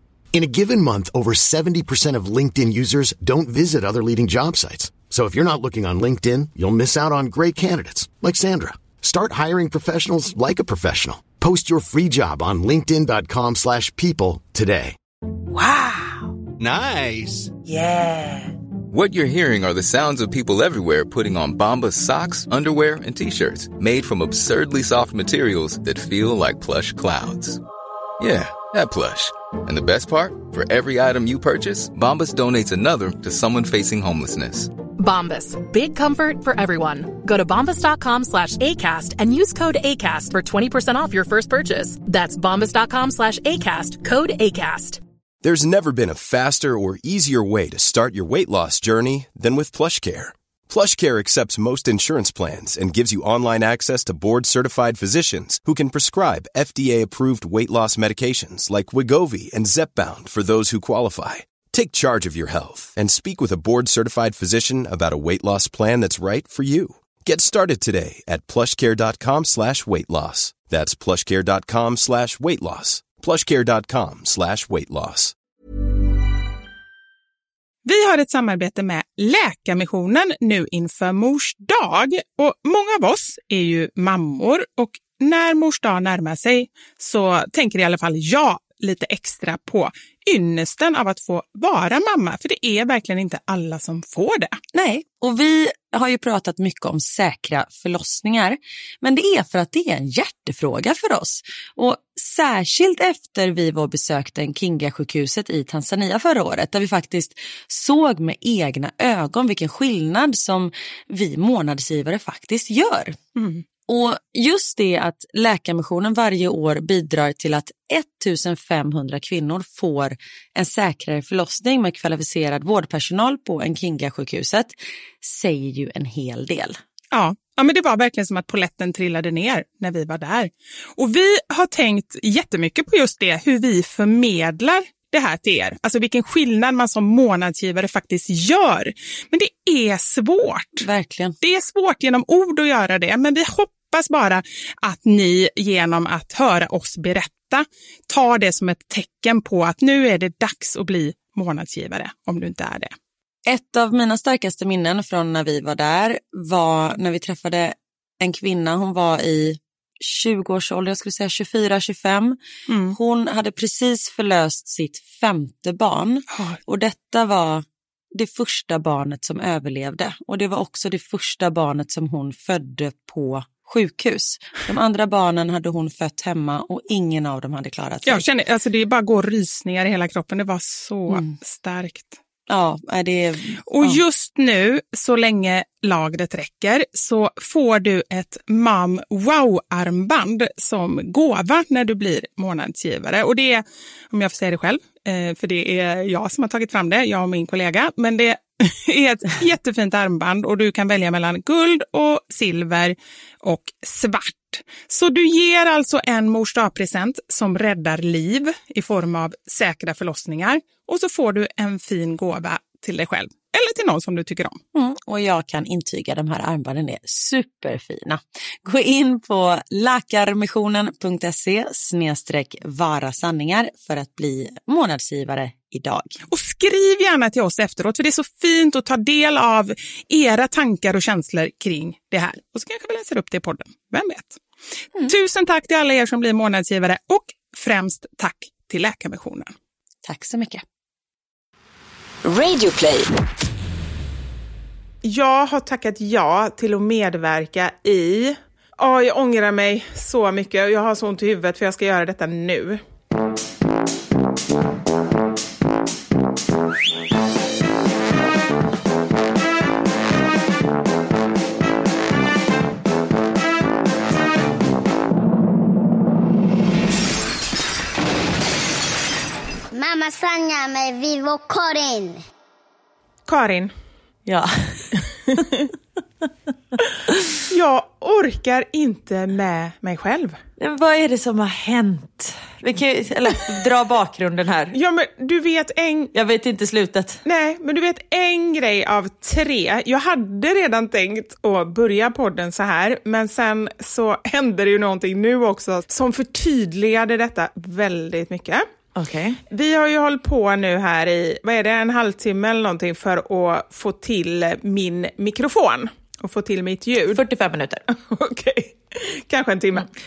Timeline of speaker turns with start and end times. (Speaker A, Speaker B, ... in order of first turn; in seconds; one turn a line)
Speaker A: 0.3-14.9
Speaker B: 15.5-16.4
Speaker C: 16.6-17.5
Speaker B: 17.6-18.5
Speaker C: 18.9-27.6
Speaker C: 28.2-34.7
Speaker B: 34.9-45.0
Speaker D: 45.4-75.3
Speaker E: 77.8-94.6
Speaker F: 94.7-113.2
Speaker E: 113.4-113.6
Speaker F: 113.9-126.8
Speaker E: 127.1-140.9
Speaker F: 140.8-141.3
Speaker E: 141.4-152.9
Speaker F: 153.5-162.4
Speaker E: 162.7-163.0
Speaker F: 162.9-178.2
Speaker E: 166.3-166.6
Speaker E: 178.1-182.2
Speaker F: 182.5-184.0
Speaker E: 183.7-214.6
Speaker F: 214.8-226.2
Speaker E: 226.3-234.4
Speaker E: 235.1-239.5
Speaker F: 240.1-240.6
Speaker F: 242.3-243.0
Speaker E: 245.0-252.8
Speaker G: 269.7-272.2
Speaker E: 273.3-273.7
Speaker F: 274.3-275.4
Speaker E: 275.3-275.7
Speaker F: 277.1-277.4
Speaker E: 277.5-280.4
Speaker F: 280.6-284.8
Speaker E: 284.7-286.1
Speaker F: 286.1-287.2
Speaker E: 287.2-298.6
Speaker F: 298.9-299.4
Speaker E: 299.5-307.2
Speaker F: 307.1-307.9
Speaker E: 307.9-309.9